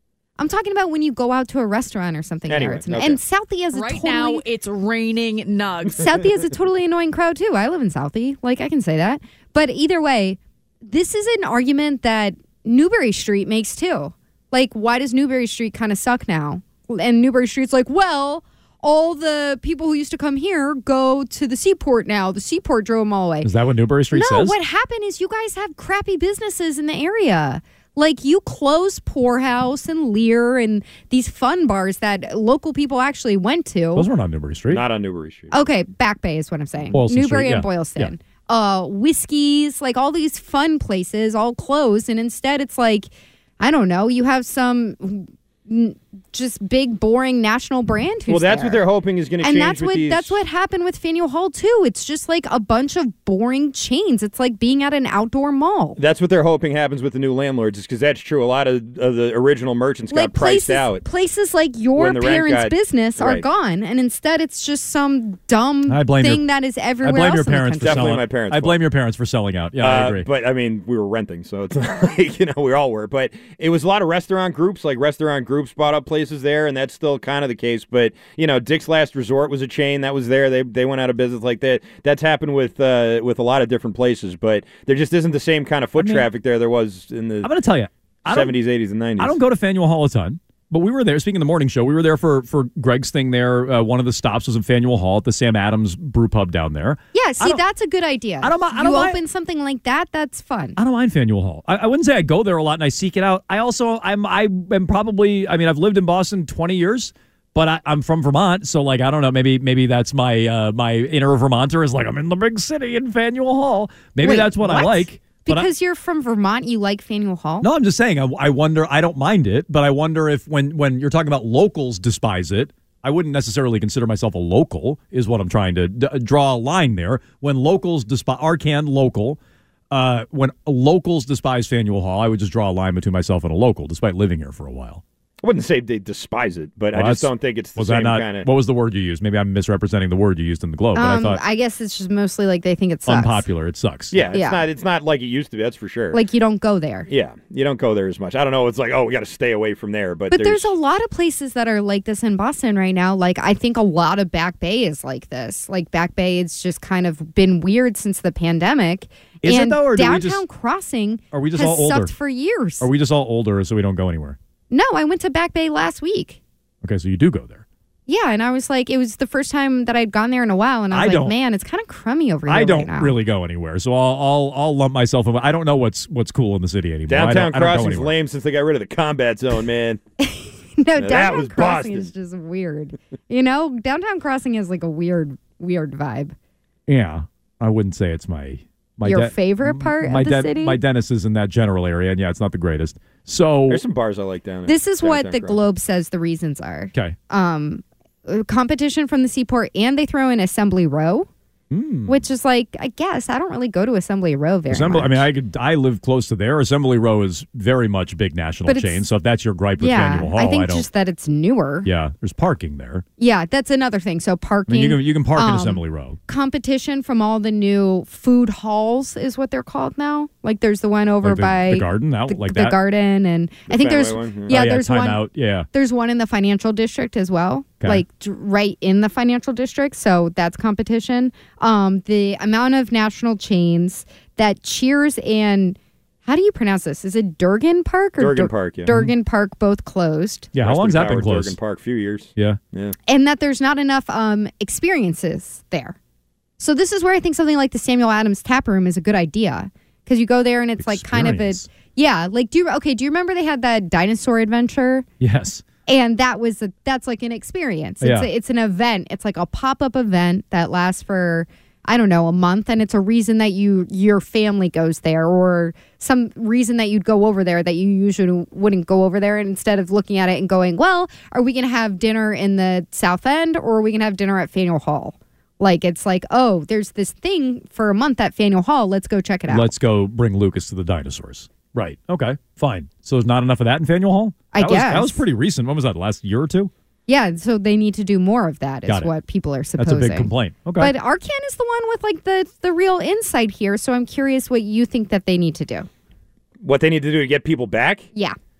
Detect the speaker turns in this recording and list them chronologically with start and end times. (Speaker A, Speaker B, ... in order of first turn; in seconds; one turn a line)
Speaker A: 0.4-4.5
Speaker B: 2.5-3.2
Speaker C: 3.8-5.9
Speaker A: 5.9-23.5
Speaker D: 23.4-24.6
Speaker A: 24.1-34.1
Speaker D: 34.0-34.8
Speaker B: 34.7-35.5
Speaker A: 35.5-48.8
Speaker D: 36.9-38.1
Speaker B: 48.3-50.4
Speaker A: 49.4-56.0
Speaker B: 56.0-61.0
Speaker A: 60.1-68.1
Speaker B: 62.0-63.5
Speaker D: 65.9-66.5
Speaker D: 67.0-70.3
Speaker B: 67.8-68.8
Speaker B: 69.8-87.5
Speaker D: 86.0-86.3
Speaker D: 87.4-88.6
Speaker B: 88.3-89.4
Speaker D: 89.2-97.6
Speaker A: 97.1-100.8
Speaker D: 98.4-99.2
Speaker D: 100.8-115.7
Speaker A: 114.2-117.7
Speaker D: 117.6-129.4
Speaker D: 129.9-135.0
Speaker B: 135.4-138.5
Speaker D: 136.9-141.4
Speaker A: 140.9-143.5
Speaker D: 143.1-144.3
Speaker B: 144.1-146.2
Speaker A: 144.3-144.6
Speaker A: 146.1-147.1
Speaker B: 147.1-150.7
Speaker A: 150.3-162.9
Speaker D: 159.4-160.4
Speaker D: 161.3-162.1
Speaker D: 162.8-164.4
Speaker A: 164.7-166.4
Speaker D: 166.8-167.6
Speaker A: 168.1-173.2
Speaker D: 170.9-171.3
Speaker D: 172.5-178.1
Speaker B: 177.1-180.0
Speaker A: 180.2-186.3
Speaker B: 181.0-182.1
Speaker D: 186.9-193.8
Speaker A: 189.1-190.8
Speaker B: 193.7-195.6
Speaker A: 194.7-201.3
Speaker D: 201.7-202.2
Speaker A: 202.1-205.3
Speaker D: 204.7-210.9
Speaker A: 208.7-209.0
Speaker A: 209.8-211.9
Speaker D: 211.8-213.0
Speaker A: 213.2-240.5
Speaker D: 214.7-216.2
Speaker D: 221.2-222.8
Speaker B: 223.7-224.6
Speaker D: 224.5-225.7
Speaker B: 238.2-238.9
Speaker D: 240.5-241.6
Speaker B: 240.6-242.9
Speaker A: 243.1-246.0
Speaker A: 246.6-255.1
Speaker D: 250.8-251.7
Speaker D: 255.2-255.6
Speaker A: 255.9-279.7
Speaker D: 258.0-258.3
Speaker D: 279.5-286.7
Speaker A: 284.5-285.2
Speaker A: 287.1-295.9
Speaker D: 288.9-289.1
Speaker D: 289.8-290.9
Speaker B: 296.6-298.1